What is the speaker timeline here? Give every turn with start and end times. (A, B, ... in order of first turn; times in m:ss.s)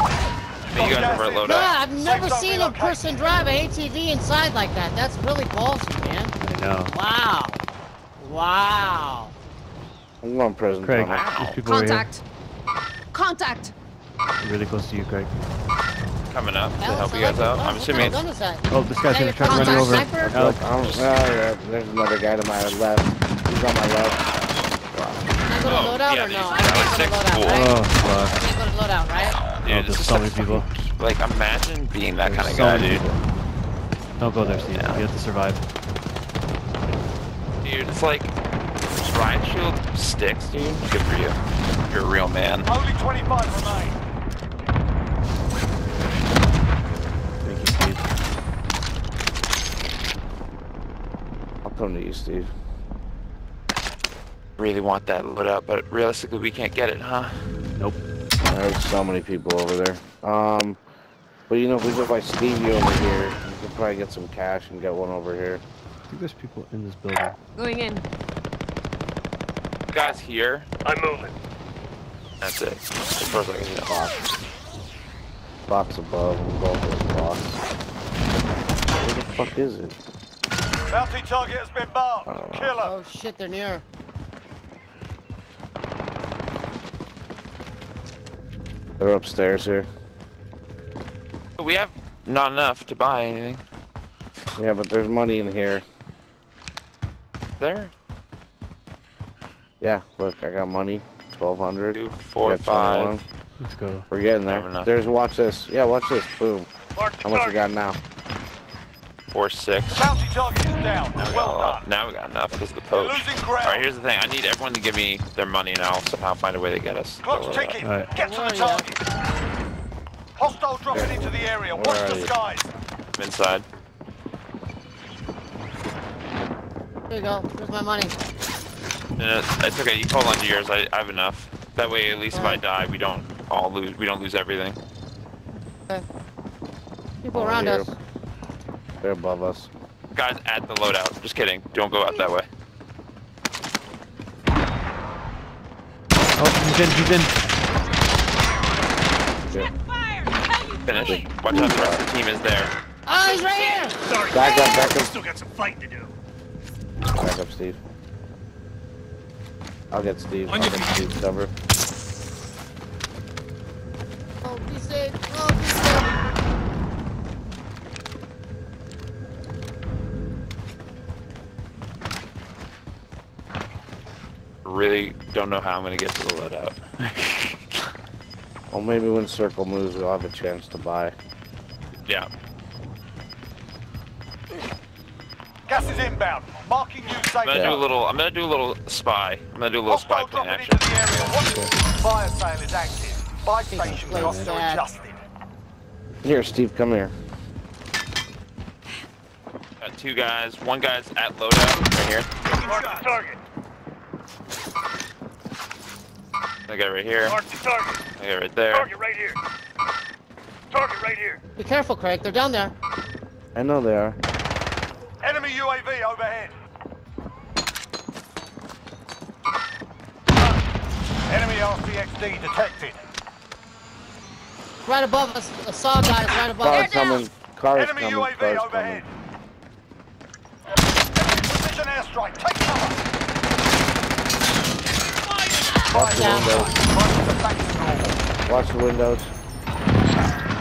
0:00.7-0:01.8 A
0:00.7-0:03.3 B
0:01.5-0:06.4 C
0:06.4-0:06.9 D
0:06.9-0:07.6 C
0:08.2-0:09.3 C
0:10.2-0:11.3 E
0:10.8-0:12.1 D
0:11.0-0:11.6 A
0:11.6-0:12.2 F
0:13.1-0:13.7 F
0:14.4-0:15.5 D
0:16.3-0:18.2 A
0:16.8-0:20.4 C
0:18.7-0:20.6 D
0:19.4-0:20.3 F
0:20.3-0:25.3 E
0:20.8-0:21.1 A
0:25.5-0:29.5 C
0:25.6-0:27.8 A
0:27.5-0:28.3 D
0:29.6-0:33.1 A
0:29.6-0:30.7 D
0:32.2-0:33.2 D
0:34.2-0:35.6 D
0:34.4-0:35.0 E
0:37.6-0:38.3 A
0:39.0-0:41.4 A
0:40.5-0:40.8 E
0:41.9-0:42.7 A
0:42.6-0:44.0 B
0:47.4-0:48.0 D
0:51.6-0:52.5 E
0:54.6-0:57.4 A
0:57.8-0:58.0 D
0:58.5-1:00.8 E
1:01.5-1:05.6 E
1:06.1-1:07.4 D
1:07.6-1:08.0 F
1:09.9-1:10.7 A
1:10.8-1:11.3 G
1:12.4-1:14.0 A
1:13.4-1:14.2 E
1:15.7-1:17.6 E
1:19.0-1:20.0 E
1:20.9-1:22.9 B
1:22.3-1:22.8 E
1:22.8-1:23.8 C
1:29.0-1:29.9 E
1:31.6-1:33.6 A
1:34.6-1:35.8 E
1:37.6-1:37.9 A
1:39.8-1:43.2 E
1:41.9-1:43.2 A
1:43.6-1:44.1 D
1:44.1-1:46.7 E
1:44.4-1:44.9 A
1:47.0-1:47.7 G
1:47.2-1:48.0 E
1:49.3-1:50.0 A
1:49.9-1:51.8 B
1:51.2-1:57.8 A
1:52.9-1:53.9 B
1:57.2-1:59.0 B
1:57.8-1:58.1 D
1:58.2-1:58.9 C
2:00.4-2:02.7 B
2:00.9-2:02.4 E
2:03.2-2:03.6 A
2:07.1-2:08.2 C
2:09.2-2:14.8 A
2:12.3-2:12.6 C
2:17.2-2:17.9 C
2:17.3-2:17.9 E
2:19.0-2:19.7 E
2:20.1-2:22.5 A
2:26.4-2:27.4 D
2:30.1-2:31.0 F
2:30.8-2:32.7 A
2:31.0-2:32.0 E
2:33.1-2:34.0 C
2:34.0-2:36.1 G
2:34.3-2:35.1 E
2:37.1-2:37.8 E
2:39.9-2:41.5 E
2:40.5-2:41.1 G
2:44.4-2:46.2 C
2:54.6-2:57.9 A
2:58.7-3:01.1 E
3:02.0-3:02.3 A
3:05.7-3:07.8 B
3:07.4-3:11.5 A
3:07.5-3:07.8 E
3:09.9-3:15.2 B
3:13.7-3:14.9 C
3:16.2-3:17.1 E
3:19.8-3:22.3 A
3:22.5-3:23.4 G
3:22.7-3:23.0 B
3:26.7-3:27.4 A
3:27.3-3:28.0 G
3:28.2-3:28.9 A
3:28.7-3:29.4 G
3:30.7-3:31.4 G
3:31.6-3:32.7 C
3:33.6-3:34.2 E
3:35.2-3:36.5 B
3:41.3-3:43.0 B
3:44.8-3:47.1 C
3:46.6-3:49.1 E
3:46.6-3:47.2 F
3:47.7-3:49.1 B
3:51.2-3:53.0 B
3:55.3-3:58.2 B
3:55.9-3:56.8 E
3:56.0-3:56.7 C
3:58.4-3:59.3 E